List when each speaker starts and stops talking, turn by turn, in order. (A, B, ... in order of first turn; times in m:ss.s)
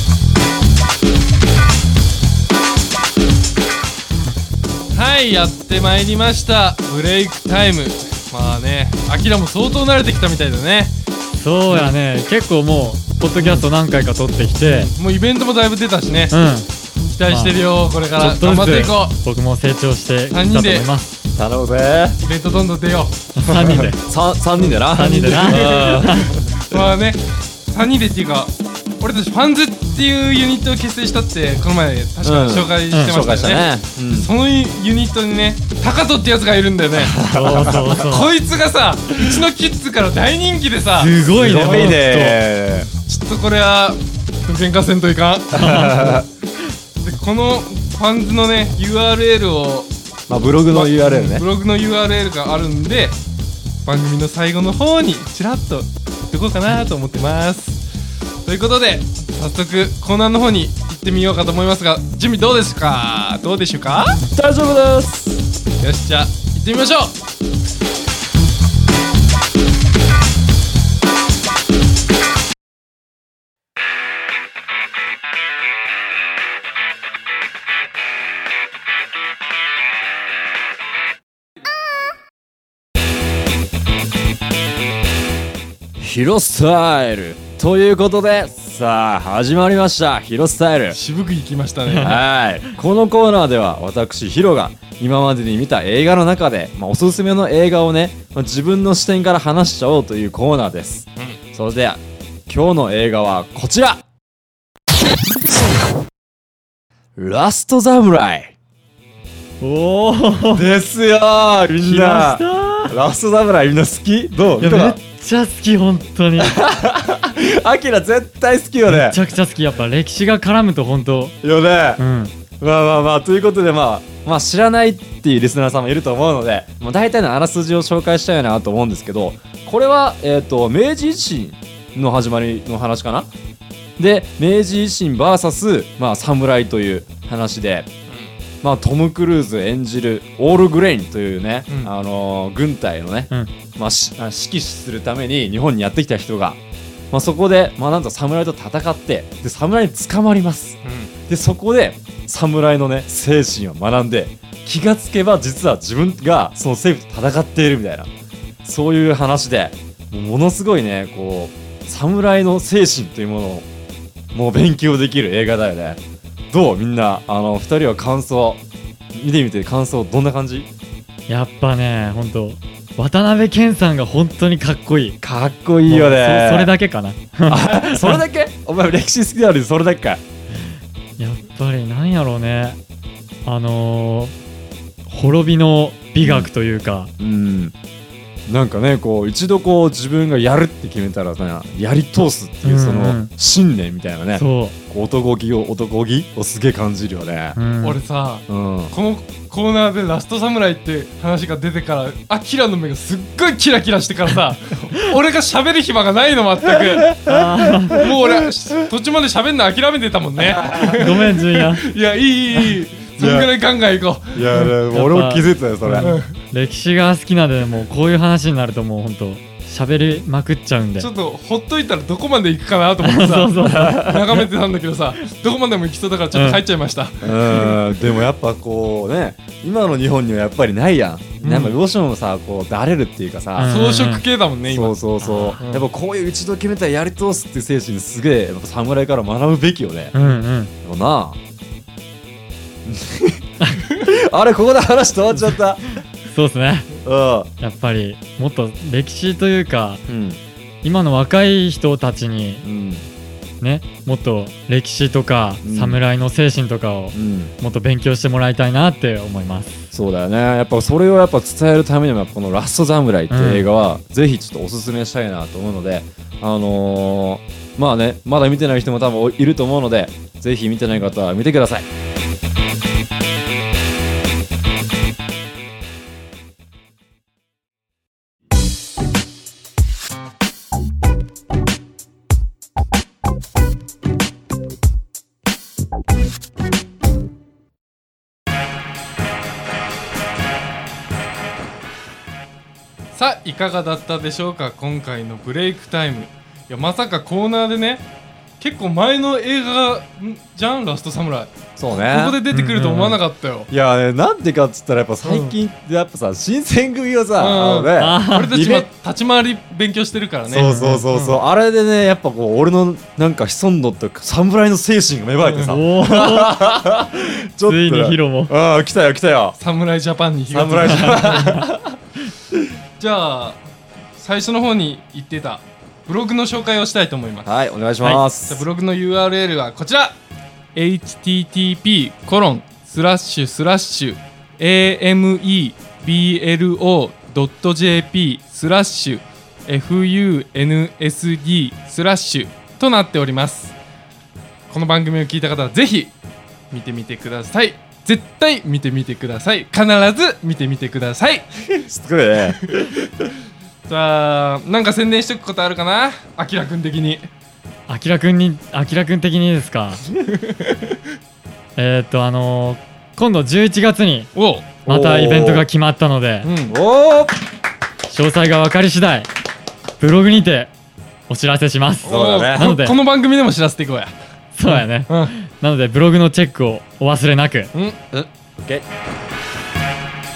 0:04.9-0:10.9 A
0:11.4-0:14.9 B
0:11.7-0:11.9 A
0:13.4-0:13.7 A
0:14.6-0:16.3 A
0:16.3-0:16.7 B
0:17.1-0:19.2 A
0:17.2-0:17.6 B
0:18.2-0:21.1 B
0:20.3-0:20.9 A
0:21.4-0:22.2 C
0:22.2-0:23.2 A
0:23.4-0:24.0 B
0:23.4-0:26.8 C
0:24.6-0:26.0 A
0:24.8-0:26.3 B
0:26.7-0:41.9 A
0:32.2-0:34.3 C
0:32.9-0:33.2 B
0:37.0-0:37.9 C
0:37.2-0:38.3 B
0:41.0-0:42.4 B
0:41.3-0:42.9 C
0:43.0-0:46.1 A
0:45.5-0:46.2 C
0:45.6-0:46.2 B
0:47.0-0:49.9 A
0:50.3-0:51.4 C
0:50.7-0:53.2 A
0:53.8-0:57.8 A
0:58.4-1:04.2 A
1:04.3-1:05.4 C
1:05.8-1:07.2 A
1:26.0-1:31.0 C
1:30.9-1:32.2 A
1:32.0-1:44.0 C
1:47.2-1:48.5 C
1:49.6-1:50.6 B
1:50.5-1:55.0 C
1:51.8-1:53.0 B
1:54.6-1:56.6 B
1:56.4-1:59.2 C
1:58.8-2:01.4 B
2:01.4-2:02.0 C
2:02.0-2:02.3 B
2:02.6-2:13.3 C
2:14.0-2:17.9 C
2:18.1-2:18.3 A
2:18.6-2:26.6 C
2:21.7-2:21.9 A
2:27.1-2:38.1 C
2:30.8-2:31.1 A
2:38.6-2:43.7 C
2:44.3-2:48.6 C
2:49.1-2:50.7 C
2:51.3-2:55.2 B
2:55.2-2:56.7 C
2:55.8-2:58.2 B
2:57.5-3:00.2 C
3:01.2-3:02.8 B
3:03.4-3:04.3 B
3:05.1-3:07.1 B
3:06.2-3:06.5 C
3:07.2-3:07.7 C
3:08.5-3:17.6 C
3:12.6-3:13.3 B
3:14.3-3:14.8 B
3:17.6-3:18.0 B
3:17.8-3:27.2 A
3:18.5-3:18.9 C
3:27.2-3:28.4 C
3:27.2-3:28.0 B
3:27.9-3:34.5 A
3:30.5-3:31.0 C
3:31.0-3:31.8 B
3:33.2-3:33.5 C
3:34.3-3:36.2 C
3:34.6-3:41.1 B
3:36.0-3:36.3 A
3:41.0-3:48.1 A
3:43.0-3:44.4 B
3:43.6-3:44.2 C
3:46.3-3:46.6 B
3:47.2-3:53.7 C
3:51.4-3:51.8 B
3:53.6-3:54.2 B
3:53.6-3:55.0 A
3:54.7-4:00.1 C
3:55.2-3:55.6 B
3:55.6-3:55.9 A
4:00.1-4:00.7 B
4:00.8-4:01.4 C
4:02.8-4:03.4 C
4:03.6-4:03.8 B
4:04.0-4:05.8 C
4:06.2-4:06.9 B
4:07.0-4:07.5 C
4:07.6-4:10.0 B
4:10.1-4:10.4 C
4:10.8-4:12.6 B
4:12.6-4:13.1 C
4:13.6-4:19.8 B
4:15.6-4:16.0 C
4:17.1-4:17.5 C
4:19.9-4:31.9 C
4:23.3-4:23.7 B
4:53.1-4:58.0 A
4:58.6-5:03.7 A
5:01.8-5:02.4 C
5:02.5-5:03.2 B
5:03.7-5:08.8 C
5:05.2-5:05.6 A
5:07.4-5:11.4 A
5:08.0-5:08.6 B
5:10.5-5:19.6 C
5:10.6-5:11.1 B
5:15.4-5:15.8 A
5:15.6-5:16.6 B
5:17.6-5:18.5 B
5:19.6-5:21.6 A
5:20.5-5:22.0 C
5:20.8-5:21.6 B
5:23.0-5:23.6 A
5:24.2-5:27.5 A
5:27.4-5:28.6 C
5:28.0-5:30.2 A
5:30.7-5:43.7 A
5:44.7-5:46.1 A
5:46.7-5:51.8 A
5:51.9-5:52.6 C
5:52.6-5:53.0 A
5:53.9-5:57.3 A
5:57.9-6:00.0 B
6:00.2-6:01.0 A
6:01.8-6:04.3 B
6:04.3-6:04.7 A
6:04.8-6:05.7 C
6:04.8-6:06.5 B
6:06.4-6:06.8 A
6:06.7-6:07.4 C
6:08.1-6:09.3 B
6:10.0-6:10.7 B
6:11.3-6:13.0 B
6:12.0-6:15.3 A
6:12.0-6:12.6 C
6:14.5-6:17.7 B
6:17.7-6:18.0 A
6:18.1-6:18.8 C